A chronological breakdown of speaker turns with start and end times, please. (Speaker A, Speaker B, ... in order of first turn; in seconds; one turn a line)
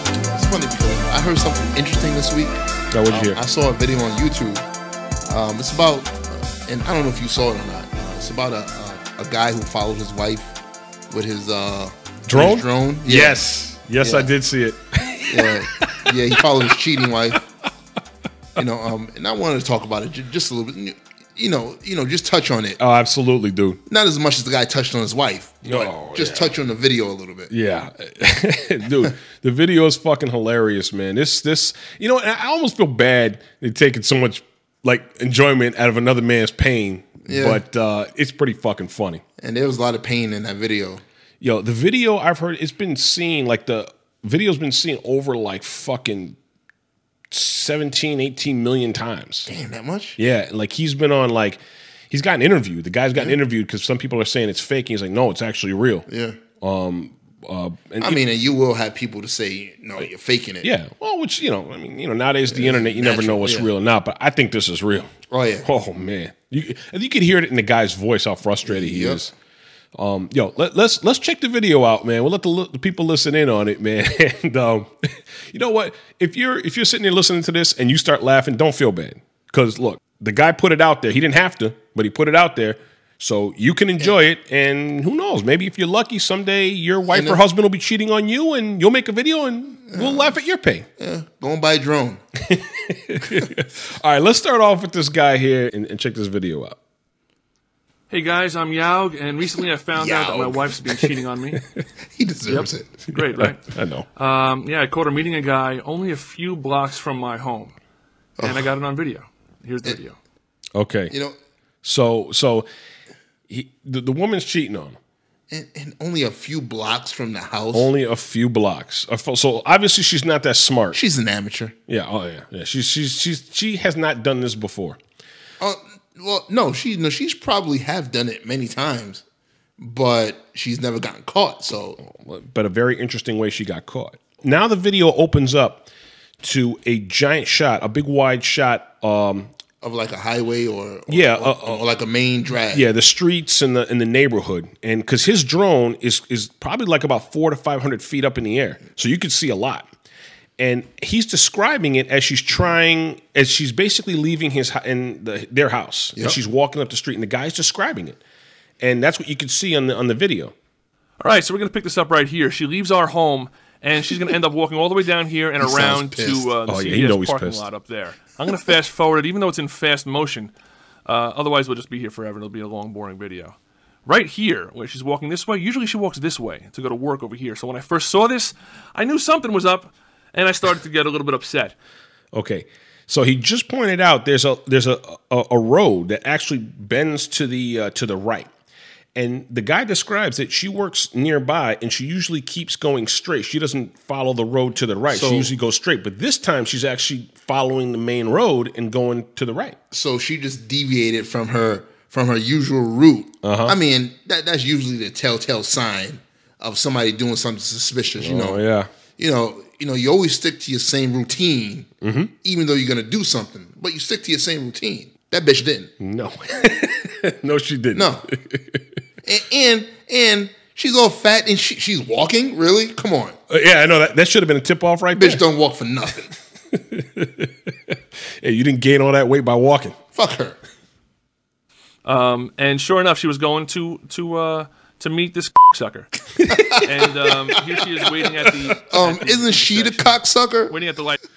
Speaker A: 0.3-2.5
Speaker B: 2.9-3.4
Speaker A: 3.1-4.6
Speaker A: 5.3-10.6
Speaker A: 11.1-13.4
Speaker B: 12.3-16.1
Speaker A: 14.0-14.3
Speaker A: 15.3-17.4
Speaker A: 18.6-22.8
Speaker B: 22.8-23.8
Speaker A: 23.9-27.5
Speaker B: 25.6-26.5
Speaker B: 27.5-39.2
Speaker A: 37.2-37.6
Speaker A: 39.4-41.0
Speaker B: 41.4-46.4
Speaker B: 47.3-49.5
Speaker A: 49.5-50.2
Speaker B: 50.2-56.1
Speaker A: 56.1-56.4
Speaker B: 56.6-58.2
Speaker A: 58.0-60.7
Speaker B: 60.6-65.1
Speaker A: 62.5-63.7
Speaker A: 65.3-65.7
Speaker B: 65.6-69.3
Speaker A: 68.7-69.2
Speaker B: 69.9-90.9
Speaker A: 87.1-87.4
Speaker A: 89.9-90.4
Speaker A: 91.0-92.2
Speaker B: 92.5-96.8
Speaker C: 98.1-101.6
Speaker A: 99.9-100.8
Speaker A: 102.1-103.0
Speaker C: 102.5-107.8
Speaker B: 103.1-104.0
Speaker A: 108.4-108.7
Speaker C: 108.4-110.2
Speaker B: 110.7-111.1
Speaker A: 111.1-111.3
Speaker B: 111.8-112.7
Speaker B: 113.5-115.0
Speaker A: 115.5-117.9
Speaker B: 117.7-121.0
Speaker A: 120.9-121.7
Speaker B: 121.9-125.0
Speaker A: 125.6-129.2
Speaker A: 129.8-132.0
Speaker B: 132.0-135.9
Speaker B: 136.4-139.5
Speaker A: 139.8-142.9
Speaker B: 141.1-141.8
Speaker B: 142.7-149.9
Speaker B: 150.6-158.2
Speaker B: 158.8-160.5
Speaker C: 161.2-170.5
Speaker A: 165.6-166.5
Speaker B: 166.7-167.7
Speaker C: 171.1-173.5
Speaker C: 174.1-181.7
Speaker B: 182.3-188.5
Speaker B: 189.1-199.8
Speaker A: 195.1-195.5
Speaker A: 199.9-208.6
Speaker B: 203.4-203.8
Speaker B: 208.2-208.9
Speaker A: 209.2-211.9
Speaker B: 212.0-212.3
Speaker A: 212.4-215.9
Speaker B: 216.0-218.9
Speaker A: 217.9-218.3
Speaker A: 219.2-223.3
Speaker B: 223.5-225.4
Speaker A: 225.1-226.3
Speaker B: 226.7-230.0
Speaker A: 230.1-230.6
Speaker C: 232.0-236.1
Speaker B: 236.4-236.8
Speaker A: 236.4-236.9
Speaker C: 236.8-240.0
Speaker A: 238.9-240.7
Speaker C: 240.7-241.2